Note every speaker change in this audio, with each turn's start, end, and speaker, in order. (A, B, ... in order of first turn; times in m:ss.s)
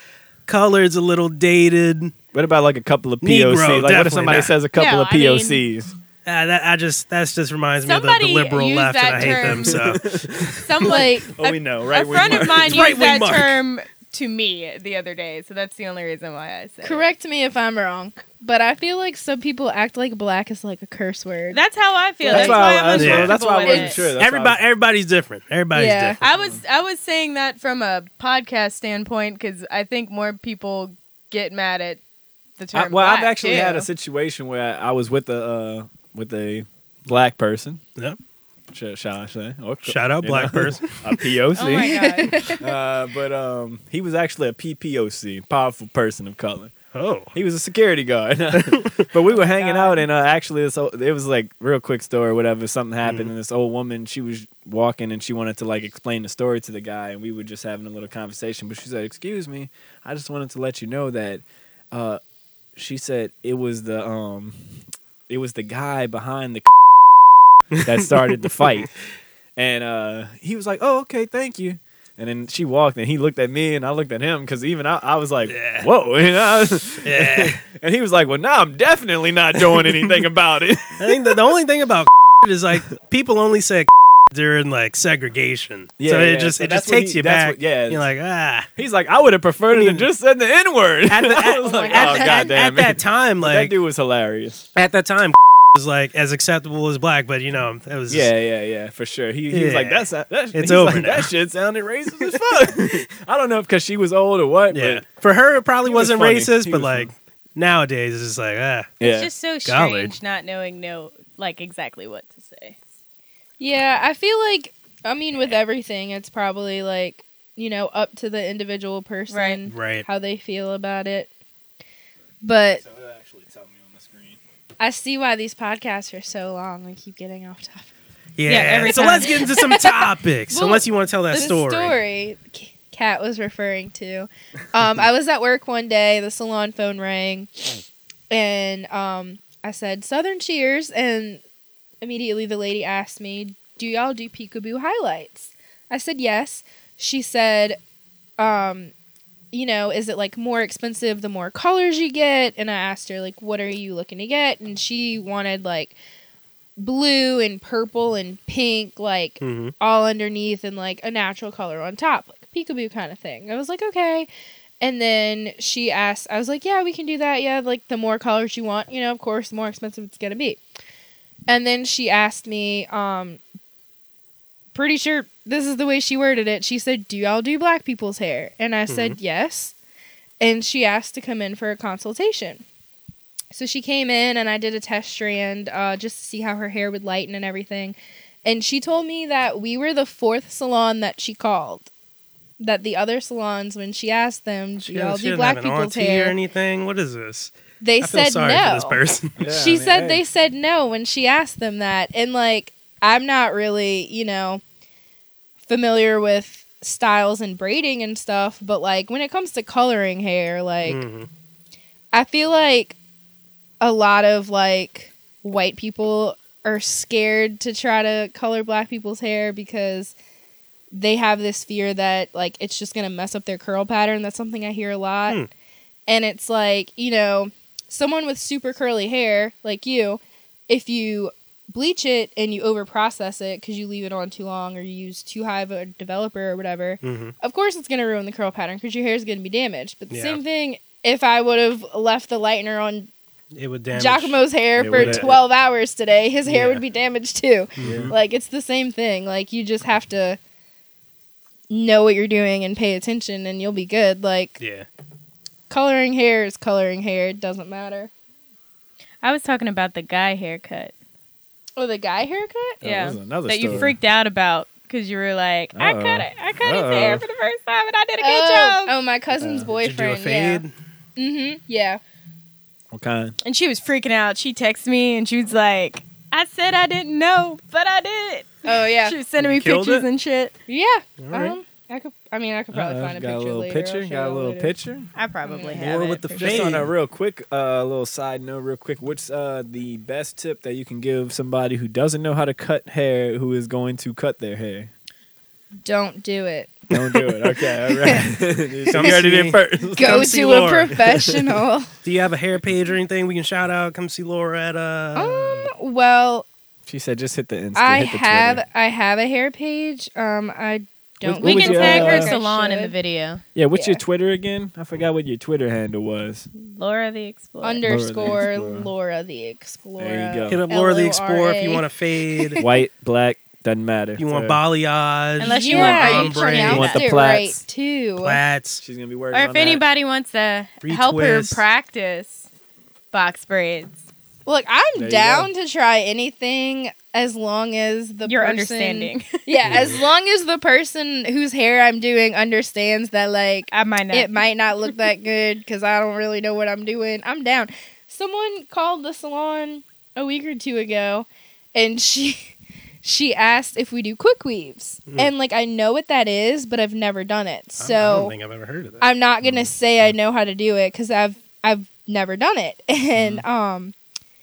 0:00.5-0:02.1 A
0:02.3-0:05.9 B
0:03.2-0:04.6 A
0:04.7-0:05.6 C
0:06.2-0:10.2 A
0:07.8-0:17.0 C
0:09.2-0:12.9 B
0:10.8-0:11.3 D
0:12.3-0:13.6 A
0:16.8-0:21.6 D
0:21.5-0:24.0 C
0:22.2-0:22.9 D
0:22.3-0:24.6 B
0:22.9-0:23.4 A
0:23.6-0:24.0 D
0:24.1-0:26.2 A
0:25.7-0:26.2 D
0:26.2-0:26.6 B
0:26.2-0:32.0 C
0:32.6-0:33.9 C
0:32.7-0:37.8 B
0:38.7-0:46.7 B
0:39.8-0:41.2 A
0:41.5-0:42.5 C
0:41.8-0:42.7 D
0:46.9-0:47.3 A
0:47.3-1:02.2 B
0:48.5-0:49.1 A
0:49.3-0:50.0 D
0:53.0-0:53.3 A
1:02.8-1:04.7 B
1:05.3-1:06.7 B
1:07.8-1:08.9 B
1:09.6-1:21.4 B
1:15.5-1:15.9 A
1:17.0-1:17.6 A
1:21.0-1:28.7 A
1:26.0-1:28.0 B
1:28.8-1:34.6 B
1:29.7-1:30.0 A
1:31.1-1:33.7 A
1:31.6-1:32.5 D
1:34.7-1:38.3 A
1:38.1-1:45.0 B
1:39.5-1:41.3 A
1:44.7-1:48.9 A
1:45.8-1:47.1 B
1:49.0-1:49.3 B
1:49.0-1:52.8 C
1:49.6-1:50.1 A
1:53.6-2:01.3 D
1:59.3-1:59.6 C
1:59.7-2:00.0 A
2:02.4-2:02.8 D
2:02.8-2:04.4 B
2:04.8-2:07.9 D
2:08.4-2:12.0 A
2:08.5-2:09.6 C
2:09.2-2:17.5 D
2:18.3-2:21.4 D
2:22.0-2:27.8 D
2:28.4-2:28.9 D
2:29.5-2:36.0 D
2:36.8-2:44.3 D
2:39.4-2:39.7 A
2:44.8-2:50.6 D
2:51.5-2:53.4 D
2:54.7-2:59.7 D
2:58.9-2:59.2 A
3:00.4-3:02.6 D
3:03.5-3:11.9 D
3:12.6-3:16.3 D
3:14.9-3:19.3 A
3:17.8-3:24.6 D
3:19.4-3:20.2 B
3:25.7-3:31.0 D
3:30.8-3:31.3 A
3:32.1-3:33.0 D
3:33.8-3:40.1 D
3:40.9-3:45.4 D
3:46.1-4:03.1 D
3:57.0-3:57.3 A
4:00.1-4:00.4 A
4:03.5-4:04.4 A
4:03.9-4:10.4 D
4:04.8-4:05.4 B
4:04.9-4:05.2 A
4:06.4-4:06.8 A
4:07.8-4:08.1 A
4:07.8-4:08.1 B
4:11.7-4:14.6 D
4:14.6-4:14.9 A
4:15.7-4:18.1 D
4:19.2-4:20.9 C
4:21.8-4:22.8 D
4:22.8-4:24.0 B
4:22.8-4:28.9 C
4:25.7-4:27.2 B
4:28.2-4:30.6 D
4:29.4-4:29.7 B
4:29.8-4:30.7 A
4:31.2-4:32.0 D
4:32.9-4:33.4 B
4:33.4-4:40.5 C
4:38.6-4:39.2 D
4:39.4-4:40.0 A
4:40.7-4:44.7 D
4:41.2-4:41.6 A
4:42.7-4:45.1 B
4:45.1-4:46.9 C
4:45.4-4:45.8 D
4:45.7-4:54.9 B
4:46.4-4:46.9 A
4:55.8-4:56.8 D
4:56.9-5:01.5 B
4:56.9-4:57.2 A
4:57.9-4:58.2 D
4:58.9-4:59.2 D
4:58.9-5:01.1 A
5:00.0-5:01.9 D
5:02.0-5:05.7 A
5:05.1-5:06.4 D
5:06.9-5:08.6 B
5:07.7-5:12.9 D
5:11.2-5:12.3 B
5:11.4-5:13.4 C
5:13.5-5:16.5 B
5:13.7-5:14.0 D
5:16.6-5:17.8 C
5:17.6-5:22.6 D
5:17.8-5:18.9 B
5:20.0-5:20.6 B
5:20.5-5:22.6 A
5:22.6-5:24.6 B
5:24.2-5:26.9 A
5:25.4-5:28.4 D
5:25.4-5:27.0 C
5:26.6-5:27.6 B
5:28.2-5:28.8 A
5:28.8-5:29.8 B
5:29.3-5:32.4 C
5:30.8-5:31.6 A
5:33.1-5:34.0 C
5:34.4-5:58.3 D
5:35.0-5:35.5 B
5:38.2-5:39.2 C
5:39.6-5:40.0 B
5:39.7-5:39.9 A
5:43.7-5:44.4 C
5:57.8-5:59.0 A
5:59.0-6:03.9 D
5:59.4-5:59.7 B